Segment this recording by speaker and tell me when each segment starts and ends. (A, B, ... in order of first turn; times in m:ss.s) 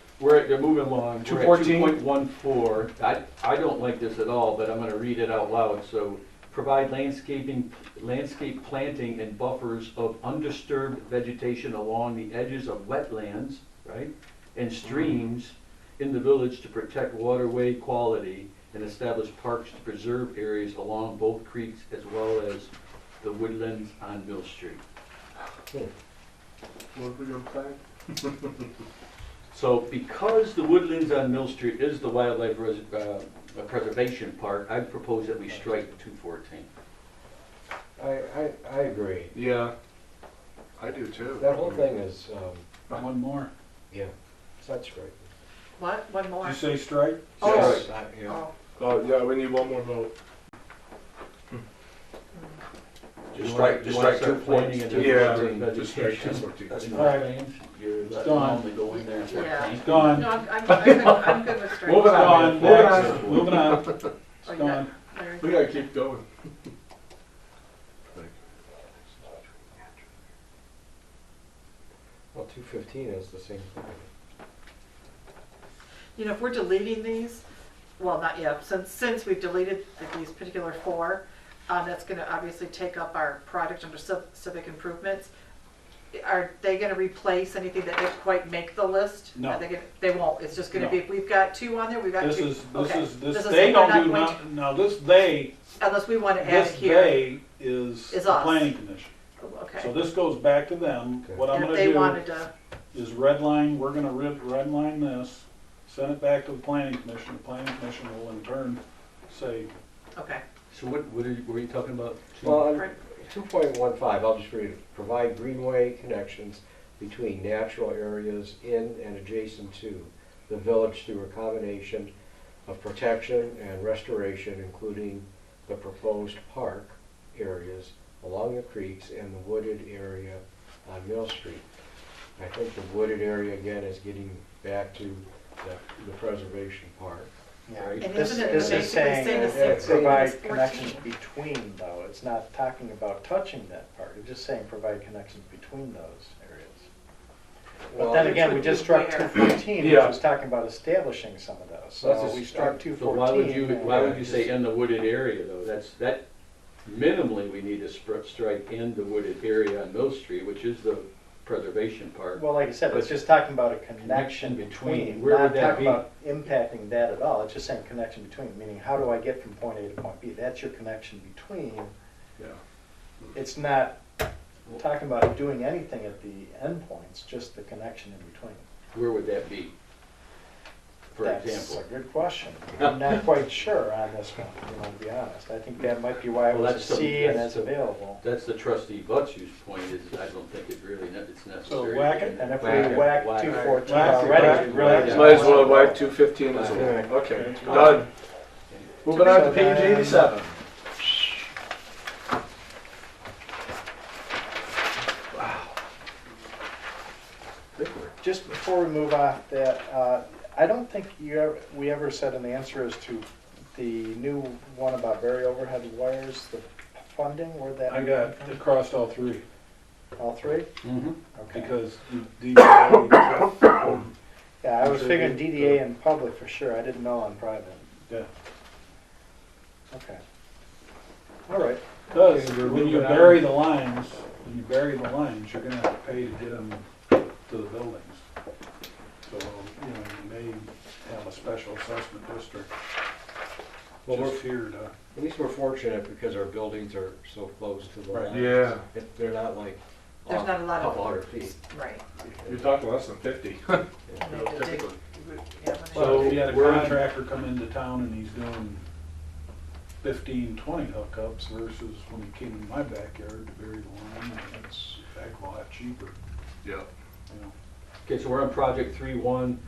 0:00.2-0:22.7 A
0:01.2-0:01.9 B
0:23.2-0:24.8 A
0:26.9-0:28.6 C
0:29.5-0:36.7 A
0:38.0-0:39.4 D
0:39.3-0:39.7 C
0:40.8-0:42.0 C
0:41.4-0:42.6 D
0:42.9-0:43.5 B
0:43.9-0:45.3 D
0:45.8-0:46.7 E
0:46.4-0:47.5 B
0:47.4-0:48.5 E
0:47.4-0:47.8 A
0:47.4-0:48.4 D
0:47.4-0:47.8 C
0:48.8-0:50.1 C
0:52.3-0:52.6 E
0:53.3-1:00.3 A
0:53.4-0:54.2 C
0:53.4-0:55.6 D
0:54.7-0:57.1 C
0:56.9-0:57.4 B
0:58.1-0:58.7 B
0:59.3-1:02.8 E
0:59.8-1:00.4 B
1:00.7-1:04.1 C
1:01.9-1:03.9 B
1:04.4-1:04.9 B
1:04.4-1:05.8 E
1:05.4-1:06.2 C
1:12.3-1:14.1 D
1:16.2-1:17.4 E
1:18.0-1:25.3 E
1:26.1-1:34.4 E
1:29.3-1:29.6 B
1:30.7-1:31.0 B
1:32.2-1:35.5 B
1:35.8-1:37.3 E
1:36.4-1:39.1 B
1:38.1-1:38.7 E
1:39.4-1:39.9 E
1:39.8-1:42.3 B
1:41.5-1:42.5 E
1:42.9-1:49.7 B
1:50.1-1:50.4 E
1:50.7-1:52.7 A
1:52.4-2:02.1 D
1:52.7-1:52.9 E
2:02.6-2:11.6 D
2:12.4-2:20.3 D
2:17.7-2:26.9 F
2:18.0-2:21.0 E
2:27.9-2:28.7 D
2:28.0-2:29.4 E
2:28.0-2:34.3 F
2:29.6-2:30.2 C
2:32.0-2:32.7 C
2:32.3-2:32.7 D
2:32.9-2:36.2 A
2:33.9-2:34.4 D
2:36.8-2:43.2 A
2:42.3-2:51.9 F
2:44.0-2:46.0 A
2:53.3-2:54.0 F
2:54.7-2:58.6 F
2:58.9-2:59.7 A
3:01.1-3:01.8 A
3:01.2-3:08.2 F
3:06.5-3:15.8 A
3:11.6-3:12.5 B
3:12.4-3:16.2 F
3:13.4-3:13.9 C
3:13.7-3:15.5 B
3:15.0-3:18.1 C
3:16.5-3:17.1 A
3:16.6-3:17.1 D
3:17.1-3:17.9 B
3:17.6-3:18.0 F
3:19.0-3:20.5 C
3:19.1-3:20.5 F
3:28.2-3:38.6 F
3:37.9-3:39.4 B
3:40.2-3:40.7 F
3:40.8-3:41.2 A
3:41.3-3:41.7 F
3:41.5-3:44.1 B
3:44.6-3:47.9 F
3:44.8-3:45.5 B
3:49.9-3:50.2 F
3:51.5-3:51.8 F
3:52.1-3:58.2 B
3:52.1-3:53.3 D
3:59.2-4:02.7 B
4:04.0-4:04.5 D
4:04.0-4:04.9 B
4:05.1-4:11.5 D
4:08.2-4:08.8 C
4:10.2-4:12.0 E
4:12.2-4:12.8 D
4:12.4-4:15.0 C
4:14.2-4:16.4 E
4:15.9-4:18.8 B
4:15.9-4:17.1 A
4:20.0-4:26.1 B
4:28.0-4:29.6 A